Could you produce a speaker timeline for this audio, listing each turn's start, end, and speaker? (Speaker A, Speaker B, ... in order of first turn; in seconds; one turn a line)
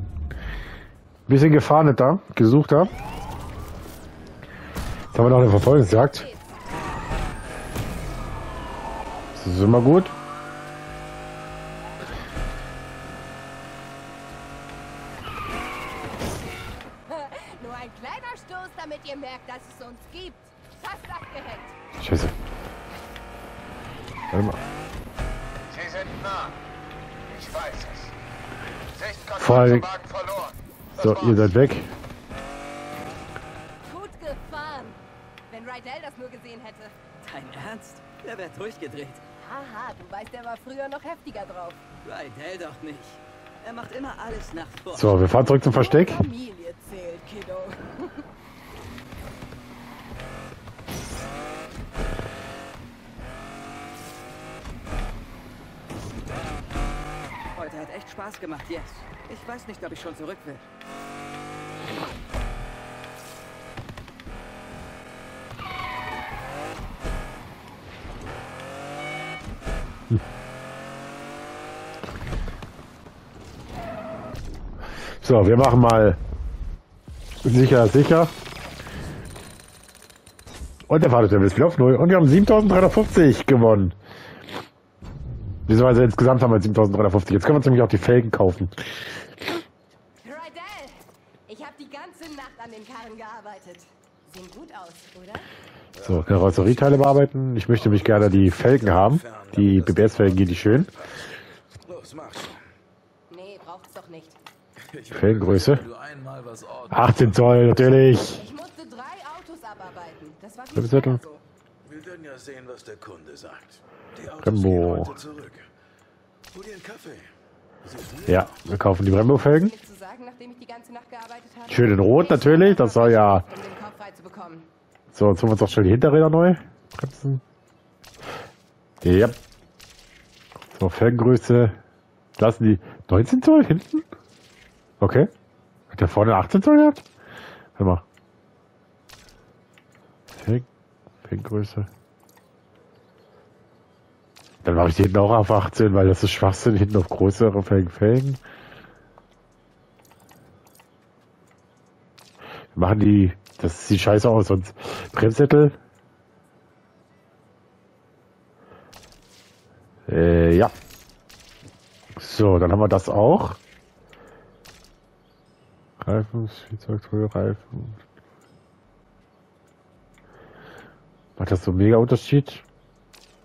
Speaker A: 1.3-2.9
Speaker A: 5.1-6.3
Speaker B: 6.1-6.4
Speaker A: 9.3-10.1
Speaker B: 17.1-21.8
Speaker A: 22.0-22.3
Speaker A: 24.3-24.6
Speaker C: 25.7-26.6
Speaker C: 27.3-28.1
Speaker D: 27.8-28.1
Speaker D: 29.0-29.8
Speaker C: 29.0-29.3
Speaker A: 29.3-29.9
Speaker C: 29.9-30.6
Speaker A: 30.9-31.9
Speaker B: 33.8-36.9
Speaker E: 37.2-39.2
Speaker B: 39.4-41.8
Speaker E: 42.0-45.2
Speaker A: 44.9-46.2
Speaker B: 45.6-48.2
Speaker E: 57.5-60.7
Speaker A: 75.2-76.2
Speaker A: 77.4-78.3
Speaker A: 80.9-84.0
Speaker A: 85.7-88.8
Speaker B: 90.2-95.5
Speaker D: 96.0-102.6
Speaker A: 96.0-100.9
Speaker B: 103.3-104.4
Speaker D: 104.9-107.7
Speaker A: 105.1-105.9
Speaker A: 106.9-108.4
Speaker B: 108.4-111.4
Speaker A: 110.7-111.2
Speaker D: 111.8-115.7
Speaker A: 114.4-115.2
Speaker D: 116.5-117.3
Speaker D: 117.8-118.5
Speaker A: 118.3-119.7
Speaker B: 119.4-124.7
Speaker A: 121.7-123.5
Speaker A: 125.1-127.4
Speaker A: 129.0-129.4
Speaker A: 130.7-131.8
Speaker A: 132.4-134.1
Speaker A: 135.0-135.3
Speaker A: 135.9-137.0
Speaker A: 137.8-138.1
Speaker A: 140.3-140.7
Speaker A: 141.2-141.9
Speaker A: 144.6-148.4
Speaker A: 152.7-155.8
Speaker A: 160.1-160.7
Speaker A: 162.2-163.6
Speaker A: 166.0-168.0
Speaker A: 171.4-172.6